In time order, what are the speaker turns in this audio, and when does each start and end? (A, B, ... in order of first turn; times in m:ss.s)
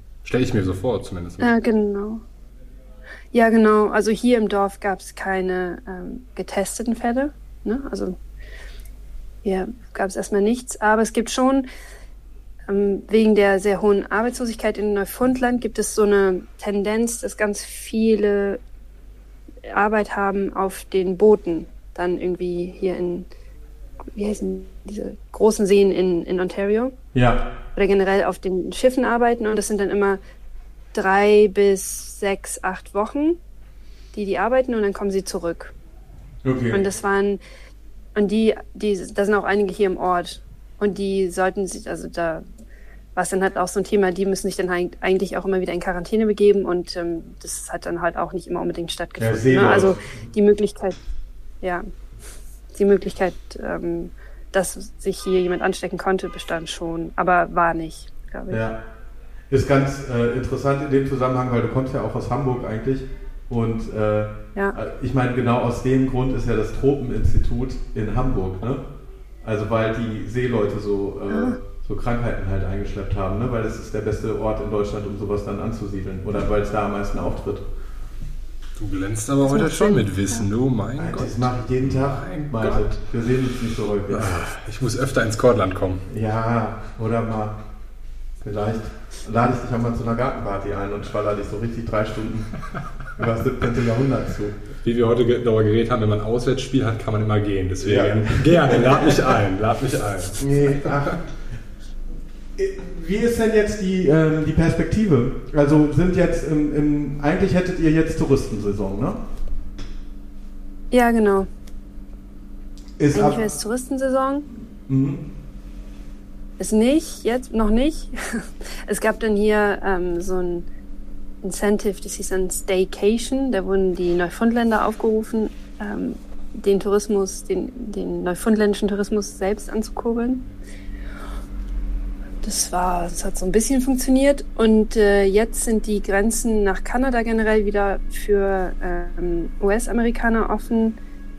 0:00.2-0:01.5 A
0:01.4-0:02.2 B
0:03.3-0:08.2 B
0:09.4-0:11.7 B
0:12.7-0:18.6 B
0:19.7-0:23.3 B
0:24.2-0:27.0 B
0:27.1-0:27.4 C
0:27.8-0:30.2 B
0:30.9-0:33.4 B
0:34.1-0:35.7 B
0:36.4-0:36.8 C
0:36.7-0:37.4 B
0:38.2-0:42.4 B
0:43.2-0:51.0 B
0:49.2-0:50.0 C
0:51.6-0:51.9 B
0:52.7-0:58.6 B
0:58.5-0:58.8 C
0:59.5-1:08.8 C
1:09.4-1:17.6 C
1:11.3-1:11.6 B
1:18.8-1:23.0 A
1:19.5-1:20.4 B
1:21.0-1:24.3 C
1:24.1-1:26.0 A
1:26.1-1:27.6 C
1:28.4-1:32.5 C
1:33.2-1:34.6 C
1:34.8-1:40.9 A
1:37.8-1:39.1 C
1:40.4-1:41.2 C
1:42.6-1:49.2 C
1:50.9-1:51.5 B
1:53.0-1:53.4 C
1:53.1-1:54.5 B
1:54.9-1:55.2 C
1:56.6-2:00.7 B
2:01.4-2:10.5 B
2:12.4-2:21.0 B